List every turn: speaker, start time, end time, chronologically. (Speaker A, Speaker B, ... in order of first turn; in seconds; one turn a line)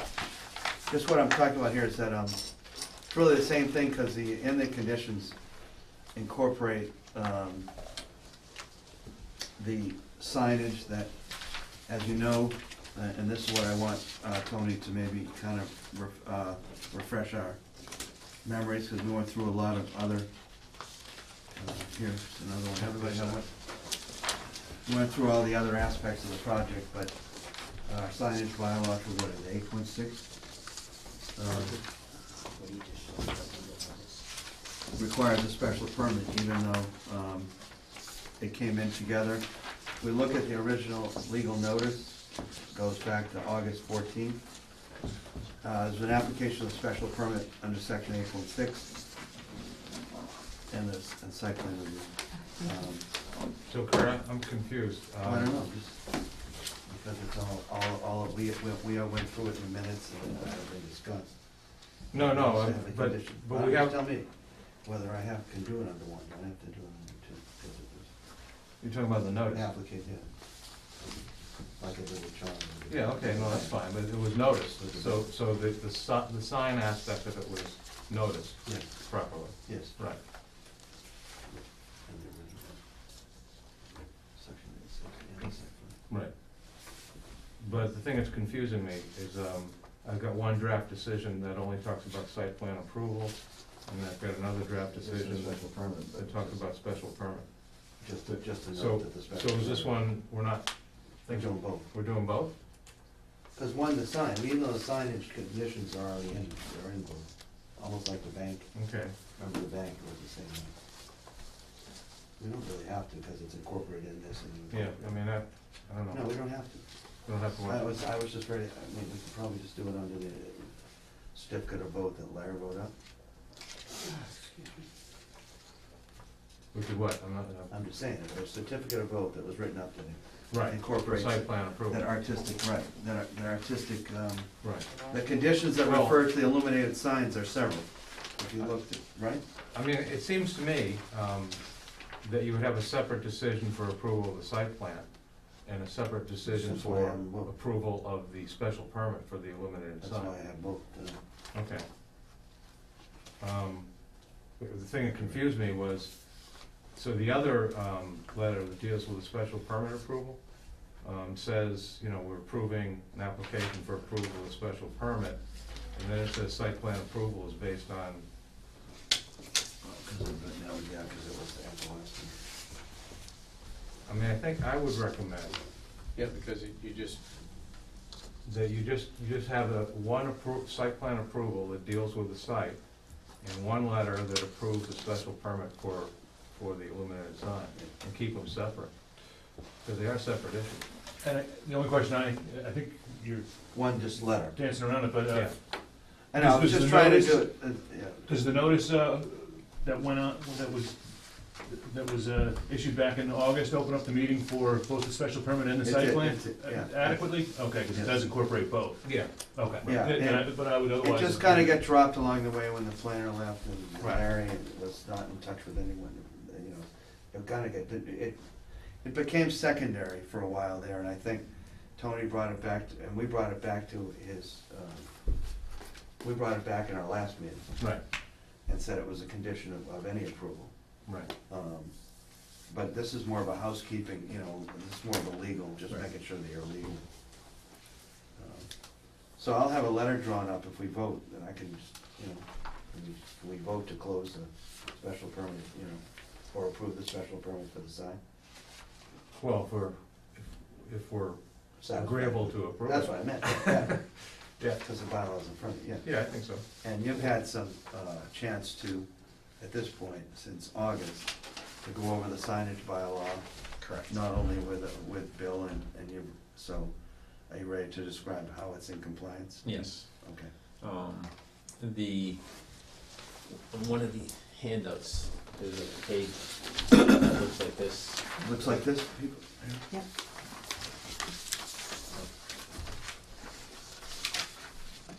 Speaker A: 0.9-5.4
Speaker A: 6.1-7.7
Speaker A: 9.6-17.6
Speaker A: 18.4-20.3
Speaker A: 21.5-23.5
Speaker A: 24.8-30.3
Speaker A: 31.3-31.8
Speaker B: 31.5-34.3
Speaker A: 34.9-44.4
Speaker A: 45.6-49.0
Speaker A: 50.7-53.0
Speaker C: 53.7-55.6
Speaker A: 55.2-68.2
Speaker C: 62.1-64.0
Speaker C: 68.8-69.7
Speaker A: 69.5-70.3
Speaker A: 71.8-74.0
Speaker C: 72.9-80.2
Speaker A: 74.8-75.2
Speaker A: 78.6-80.0
Speaker A: 81.5-82.8
Speaker A: 84.3-86.0
Speaker C: 86.1-86.9
Speaker C: 87.6-102.5
Speaker A: 94.9-96.6
Speaker A: 98.0-100.0
Speaker A: 101.3-101.9
Speaker A: 103.5-110.7
Speaker C: 108.7-109.1
Speaker A: 112.4-115.1
Speaker C: 114.7-116.4
Speaker A: 116.1-116.8
Speaker C: 117.2-117.9
Speaker A: 117.5-120.8
Speaker A: 121.3-122.9
Speaker C: 126.7-127.7
Speaker A: 127.7-139.4
Speaker C: 130.5-132.1
Speaker C: 134.6-134.9
Speaker C: 135.8-136.2
Speaker C: 139.7-150.3
Speaker A: 146.4-147.5
Speaker A: 150.0-151.2
Speaker C: 151.5-151.8
Speaker C: 153.4-168.3
Speaker A: 169.8-172.4
Speaker C: 174.1-175.6
Speaker B: 176.1-177.2
Speaker C: 178.4-190.8
Speaker D: 191.2-197.7
Speaker A: 193.7-194.6
Speaker A: 196.3-198.3
Speaker D: 198.2-211.8
Speaker A: 205.8-208.2
Speaker C: 209.0-209.3
Speaker A: 209.8-225.6
Speaker A: 226.2-228.0
Speaker A: 228.6-237.0
Speaker C: 231.1-231.3
Speaker A: 238.3-248.2
Speaker C: 249.3-254.8
Speaker A: 251.8-254.2
Speaker A: 254.8-270.5
Speaker C: 256.0-256.6
Speaker B: 263.8-264.1
Speaker B: 269.6-272.7
Speaker B: 273.7-278.9
Speaker A: 278.4-279.8